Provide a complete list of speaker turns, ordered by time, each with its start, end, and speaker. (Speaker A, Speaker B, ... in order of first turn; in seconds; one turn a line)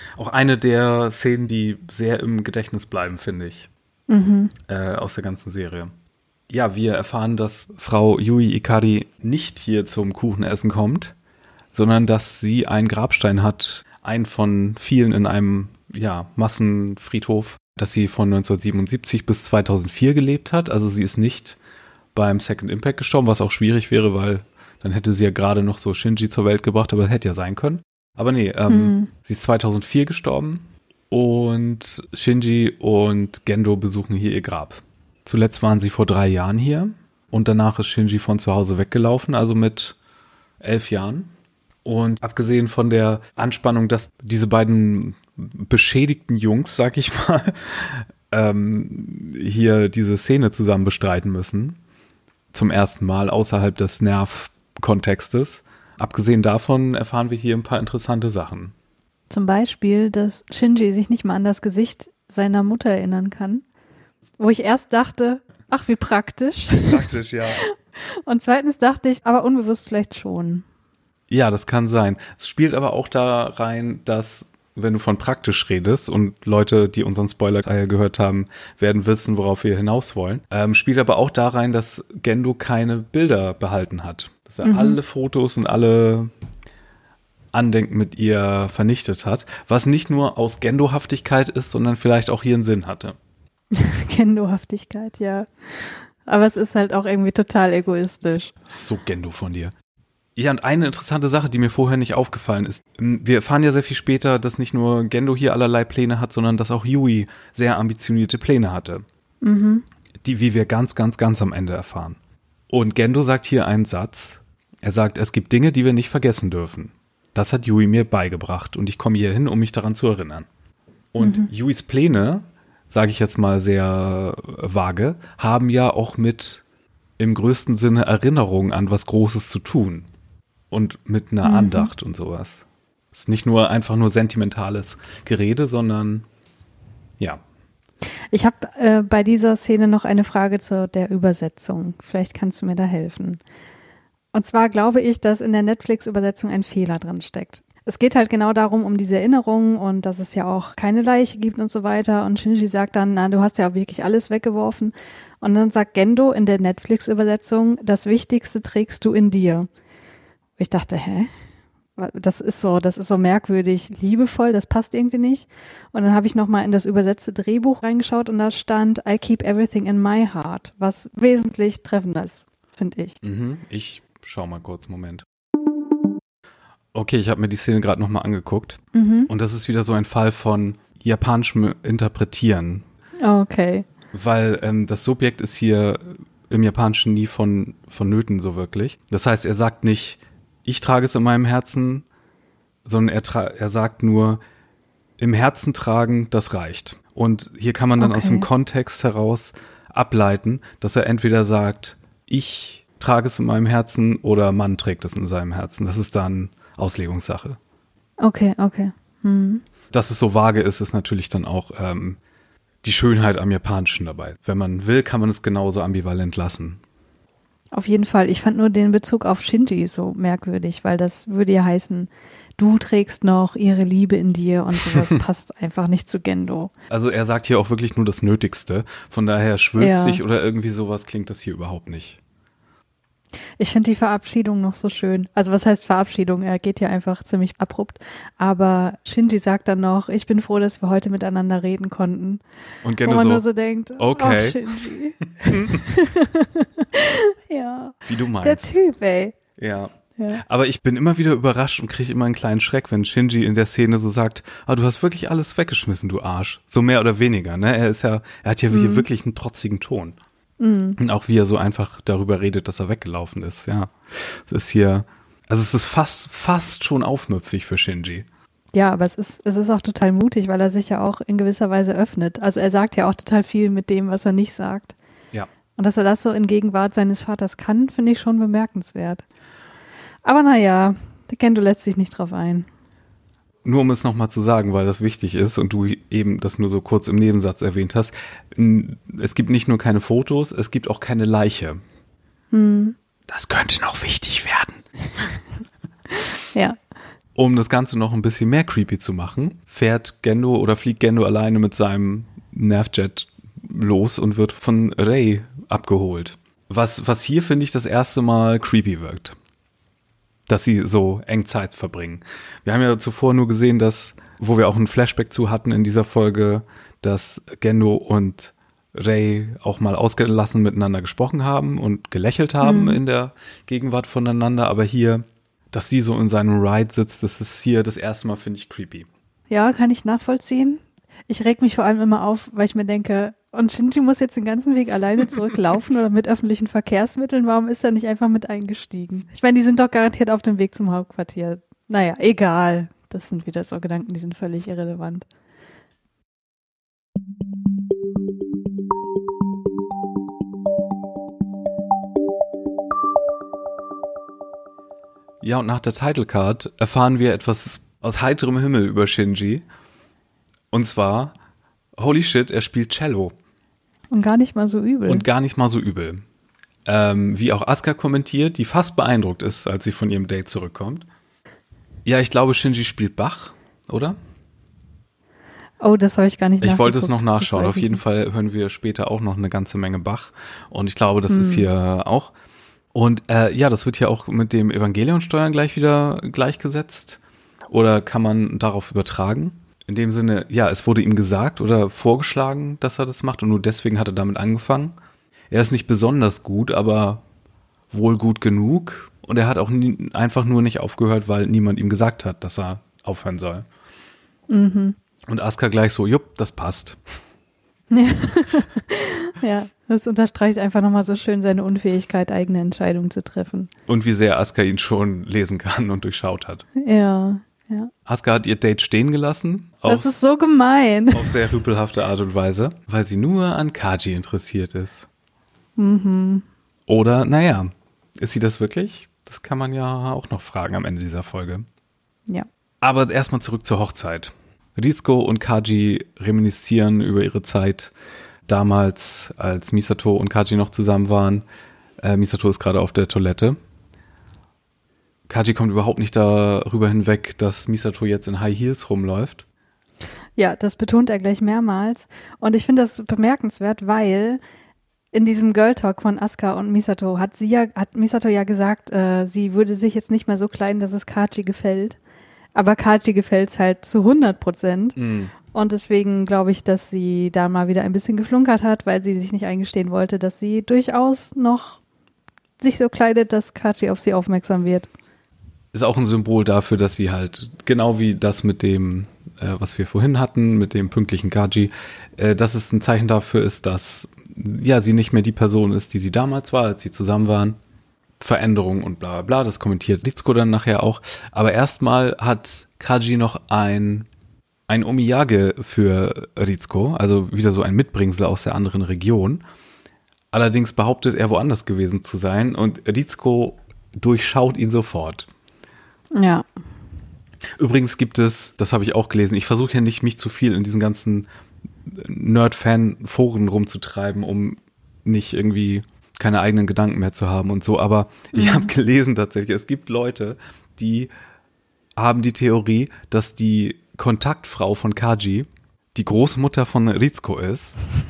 Speaker A: 0.2-3.7
Speaker B: 4.1-4.5
Speaker A: 4.7-5.9
Speaker A: 6.5-11.1
Speaker A: 11.7-21.6
Speaker A: 22.1-40.0
Speaker B: 28.7-29.1
Speaker A: 40.6-41.3
Speaker A: 41.8-51.8
Speaker A: 52.5-58.7
Speaker B: 59.3-63.6
Speaker B: 64.4-70.6
Speaker A: 66.7-67.6
Speaker A: 71.3-86.3
Speaker B: 84.6-85.0
Speaker A: 87.5-93.2
Speaker B: 93.7-98.5
Speaker A: 98.7-99.7
Speaker A: 100.3-109.0
Speaker B: 109.4-109.8
Speaker A: 110.2-112.2
Speaker A: 112.7-120.5
Speaker A: 121.1-126.6
Speaker B: 121.2-121.5
Speaker A: 127.2-130.1
Speaker A: 130.7-136.2
Speaker B: 131.4-131.9
Speaker B: 138.3-143.4
Speaker B: 144.3-159.7
Speaker B: 160.6-161.3
Speaker B: 162.0-173.2
Speaker A: 173.2-175.2
Speaker A: 176.9-182.8
Speaker B: 178.9-179.3
Speaker B: 183.2-183.9
Speaker A: 184.1-192.0
Speaker A: 192.8-194.4
Speaker A: 195.2-207.6
Speaker B: 198.0-198.5
Speaker B: 208.2-209.6
Speaker A: 209.9-212.2
Speaker A: 212.8-216.8
Speaker B: 217.7-226.7
Speaker A: 224.9-225.2
Speaker A: 226.9-232.2
Speaker B: 229.8-230.2
Speaker B: 233.6-242.4
Speaker A: 242.8-243.4
Speaker B: 243.0-249.3
Speaker A: 244.0-244.8
Speaker A: 245.5-245.8
Speaker A: 248.1-248.8
Speaker A: 249.6-260.2
Speaker B: 250.2-250.4
Speaker B: 258.7-259.1
Speaker B: 260.6-261.0
Speaker A: 261.0-268.2
Speaker B: 268.7-274.9
Speaker B: 275.8-279.2
Speaker B: 280.2-282.7
Speaker A: 283.6-291.8
Speaker B: 292.5-292.9
Speaker A: 293.3-295.3
Speaker B: 296.5-296.8
Speaker A: 297.4-309.4
Speaker A: 310.5-329.1
Speaker B: 322.6-323.0
Speaker B: 329.5-345.3
Speaker A: 355.4-359.6
Speaker A: 360.7-361.3
Speaker A: 362.0-363.3
Speaker B: 364.1-365.2
Speaker A: 365.1-366.2
Speaker A: 366.9-371.1
Speaker A: 372.0-374.2
Speaker B: 375.8-378.0
Speaker A: 376.6-382.3
Speaker B: 381.3-381.7
Speaker A: 382.9-394.9
Speaker A: 395.5-397.2
Speaker A: 397.9-403.6
Speaker B: 404.5-404.9
Speaker A: 405.3-407.0
Speaker B: 407.9-413.7
Speaker A: 413.9-416.6
Speaker B: 416.8-417.9
Speaker A: 418.1-420.1
Speaker B: 419.9-421.3
Speaker A: 421.1-425.1
Speaker B: 425.8-426.4
Speaker A: 426.9-431.6
Speaker A: 432.8-437.9
Speaker A: 438.5-441.4
Speaker A: 442.0-443.6
Speaker A: 445.3-449.4
Speaker B: 450.4-454.4
Speaker B: 455.1-462.0
Speaker B: 462.5-471.8
Speaker A: 465.0-465.3
Speaker B: 472.6-474.9
Speaker A: 475.7-487.6
Speaker A: 488.2-494.1
Speaker A: 494.7-499.4
Speaker A: 500.3-505.3
Speaker B: 506.1-506.4
Speaker A: 507.6-511.3
Speaker A: 511.9-521.1
Speaker B: 518.3-518.7
Speaker A: 522.0-527.8